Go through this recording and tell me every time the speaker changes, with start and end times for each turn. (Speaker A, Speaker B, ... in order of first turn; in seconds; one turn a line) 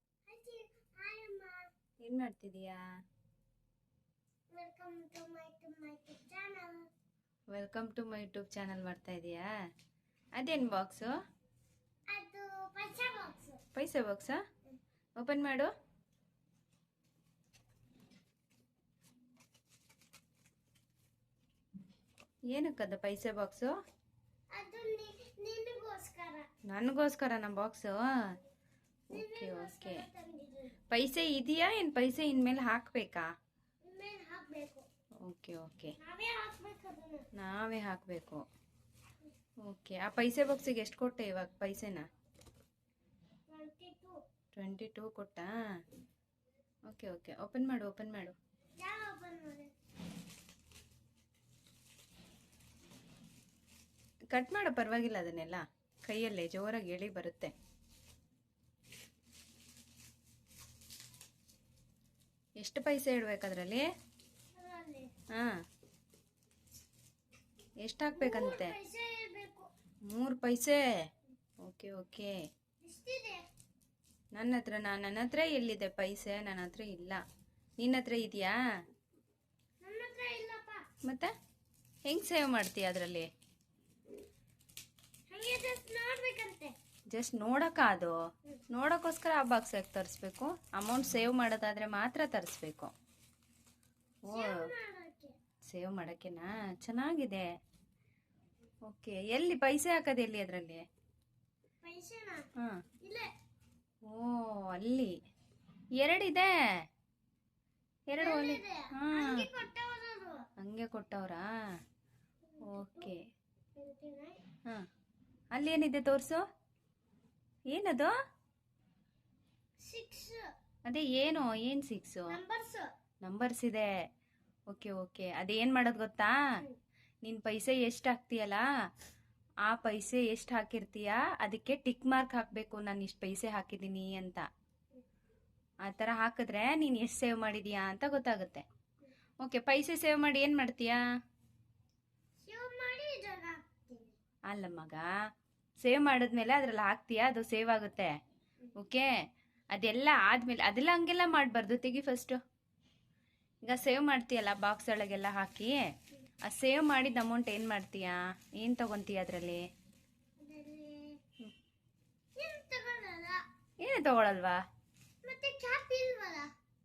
Speaker A: 0.3-1.7
Speaker B: 2.0-2.9
Speaker A: 4.5-6.9
Speaker B: 7.5-9.5
Speaker B: 10.4-11.1
Speaker A: 12.1-13.6
Speaker B: 13.8-14.4
Speaker B: 15.2-15.7
Speaker B: 22.5-23.7
Speaker A: 24.5-26.5
Speaker B: 26.7-28.4
Speaker A: 29.1-30.8
Speaker B: 29.1-30.0
Speaker B: 30.9-33.3
Speaker A: 33.9-34.9
Speaker B: 35.2-36.0
Speaker A: 36.0-37.3
Speaker B: 37.4-38.4
Speaker B: 39.6-42.1
Speaker A: 43.5-44.2
Speaker B: 44.5-45.5
Speaker B: 46.9-48.4
Speaker A: 48.8-49.7
Speaker B: 54.3-57.5
Speaker B: 62.6-63.9
Speaker A: 64.5-65.1
Speaker B: 67.8-68.8
Speaker A: 68.1-69.7
Speaker B: 70.1-70.8
Speaker B: 71.6-72.4
Speaker A: 72.8-73.4
Speaker B: 74.3-77.2
Speaker B: 77.8-78.6
Speaker A: 79.8-80.9
Speaker B: 81.0-81.3
Speaker B: 82.1-83.3
Speaker A: 85.3-86.7
Speaker B: 87.1-88.2
Speaker B: 88.7-92.9
Speaker B: 94.3-94.7
Speaker A: 94.3-95.4
Speaker B: 95.6-97.5
Speaker B: 98.9-100.8
Speaker A: 101.8-102.5
Speaker A: 103.0-103.3
Speaker B: 104.1-105.1
Speaker B: 106.0-106.5
Speaker B: 108.1-109.5
Speaker A: 108.2-110.5
Speaker B: 110.6-111.5
Speaker A: 112.5-113.1
Speaker B: 112.6-113.2
Speaker A: 113.8-114.4
Speaker B: 115.5-116.4
Speaker B: 117.7-118.1
Speaker A: 119.8-120.5
Speaker B: 120.9-122.4
Speaker A: 122.3-122.9
Speaker B: 123.2-123.9
Speaker B: 124.7-126.3
Speaker B: 127.2-128.7
Speaker B: 129.7-134.4
Speaker B: 135.8-138.7
Speaker B: 139.4-141.0
Speaker A: 142.5-144.1
Speaker B: 144.5-145.1
Speaker B: 145.8-148.1
Speaker B: 148.8-149.1
Speaker B: 149.7-152.4
Speaker B: 153.6-155.8
Speaker B: 156.4-159.7
Speaker A: 160.4-161.2
Speaker A: 162.4-163.4
Speaker B: 163.8-164.6
Speaker A: 165.2-166.5